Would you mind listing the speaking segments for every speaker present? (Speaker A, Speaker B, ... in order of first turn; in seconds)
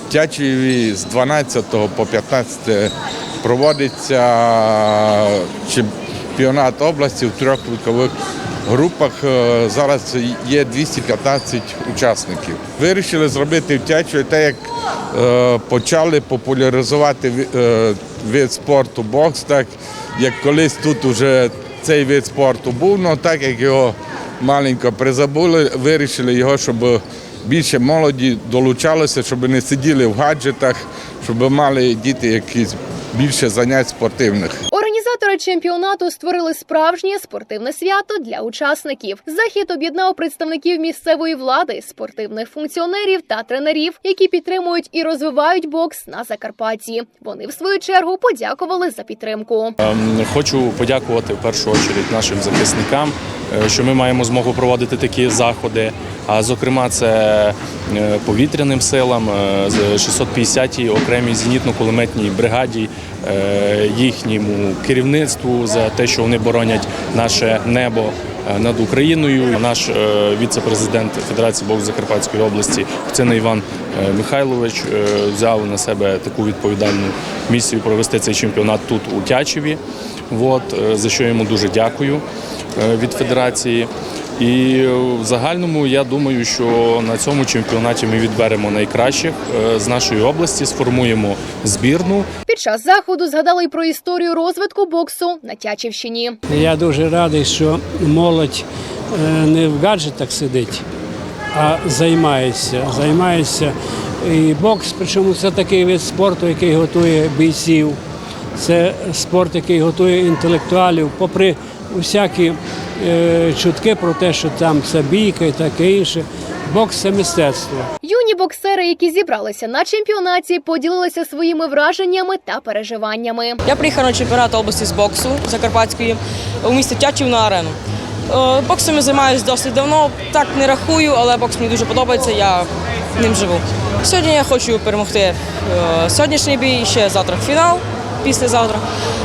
Speaker A: 0.1-8.1, 8.7-14.6, 15.1-34.6
Speaker B: 34.7-49.8, 92.5-96.4, 118.0-123.6
Speaker C: 49.8-79.8, 80.3-82.2, 82.8-92.3
Speaker D: 96.5-100.8, 101.5-108.0, 108.6-117.9
Speaker E: 123.7-138.8